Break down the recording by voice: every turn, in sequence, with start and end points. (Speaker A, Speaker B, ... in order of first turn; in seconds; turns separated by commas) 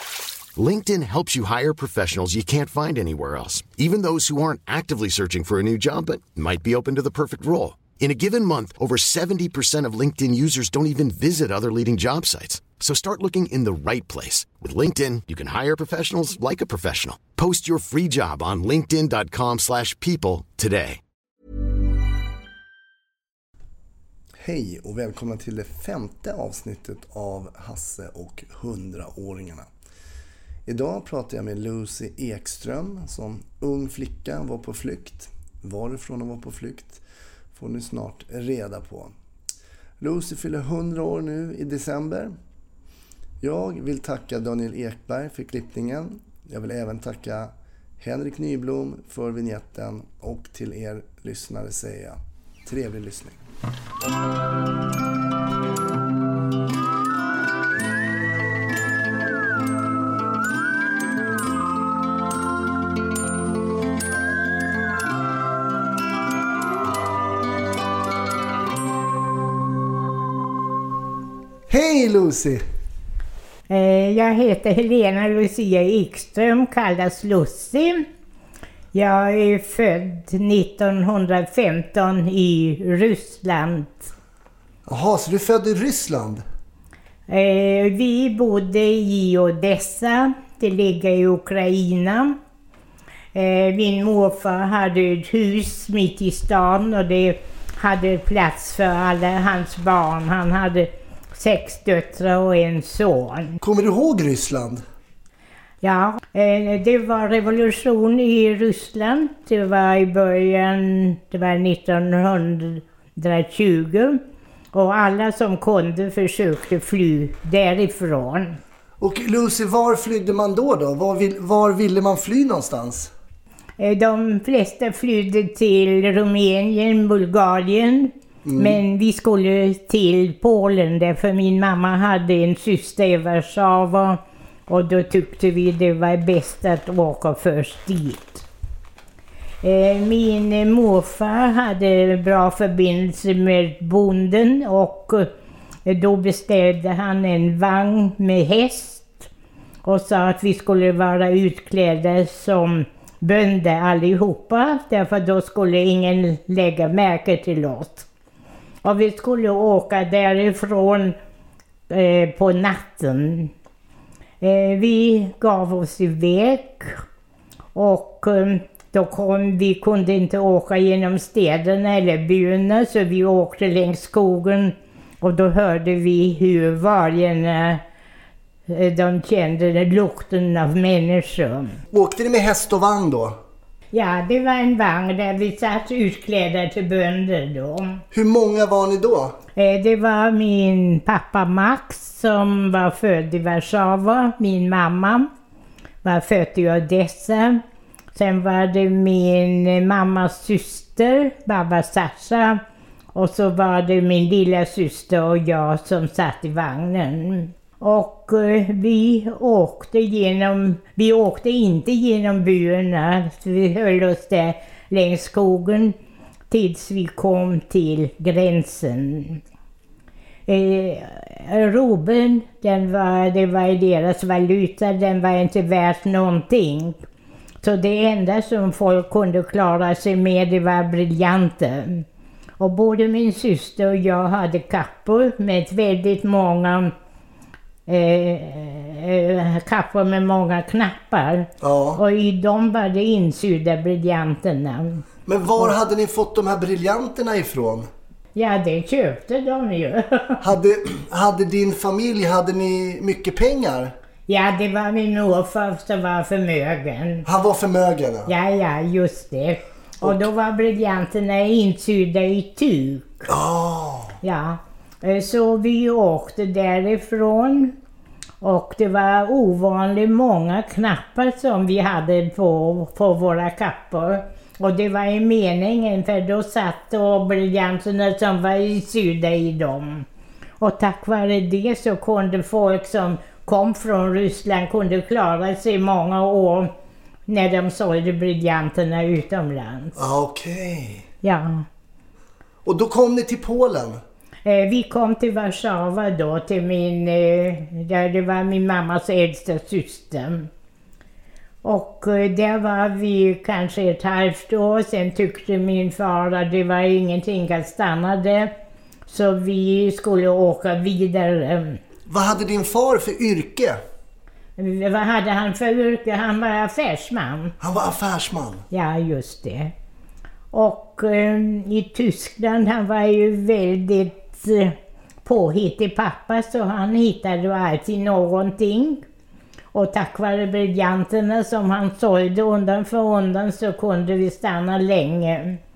Speaker A: 0.6-21.0, Speaker B: 24.4-29.7, Speaker B: 30.7-37.0, Speaker B: 37.5-39.1, Speaker B: 40.0-42.4, Speaker B: 43.4-53.4, Speaker B: 71.7-72.6, Speaker C: 73.7-78.0, Speaker C: 78.9-84.1, Speaker B: 84.9-86.4, Speaker C: 87.3-92.4, Speaker C: 93.3-103.6, Speaker B: 103.6-104.8, Speaker C: 105.8-114.2, Speaker C: 114.7-118.6, Speaker B: 119.0-123.1, Speaker C: 123.8-138.4, Speaker B: 128.4-128.8, Speaker C: 139.6-145.3, Speaker C: 145.9-149.3, Speaker C: 149.8-158.1, Speaker C: 158.8-161.2, Speaker C: 161.9-163.5, Speaker C: 164.4-167.0, Speaker C: 167.8-177.8, Speaker C: 178.7-181.8, Speaker B: 181.9-183.4, Speaker C: 183.9-188.0, Speaker B: 188.1-189.4, Speaker C: 189.6-195.3, Speaker C: 196.0-197.6, Speaker C: 198.2-202.6, Speaker C: 203.2-215.9, Speaker C: 216.5-219.4, Speaker C: 220.5-227.0, Speaker C: 227.6-232.1, Speaker C: 232.6-236.9, Speaker C: 237.9-245.1, Speaker B: 241.6-242.0, Speaker B: 245.3-247.9, Speaker C: 248.3-250.4, Speaker B: 250.4-253.9, Speaker C: 254.3-257.3, Speaker B: 257.2-258.3, Speaker C: 258.3-263.3, Speaker B: 263.3-264.2, Speaker C: 264.2-267.8, Speaker C: 268.4-280.1, Speaker C: 280.6-286.7, Speaker C: 287.3-290.0, Speaker B: 290.0-291.1, Speaker C: 291.2-291.7, Speaker B: 292.6-294.0, Speaker C: 294.4-300.5, Speaker C: 301.6-308.5, Speaker C: 309.1-311.8, Speaker B: 312.1-313.8, Speaker C: 314.6-317.5, Speaker B: 317.6-318.6, Speaker C: 318.7-319.7, Speaker C: 320.5-329.0, Speaker C: 329.7-335.6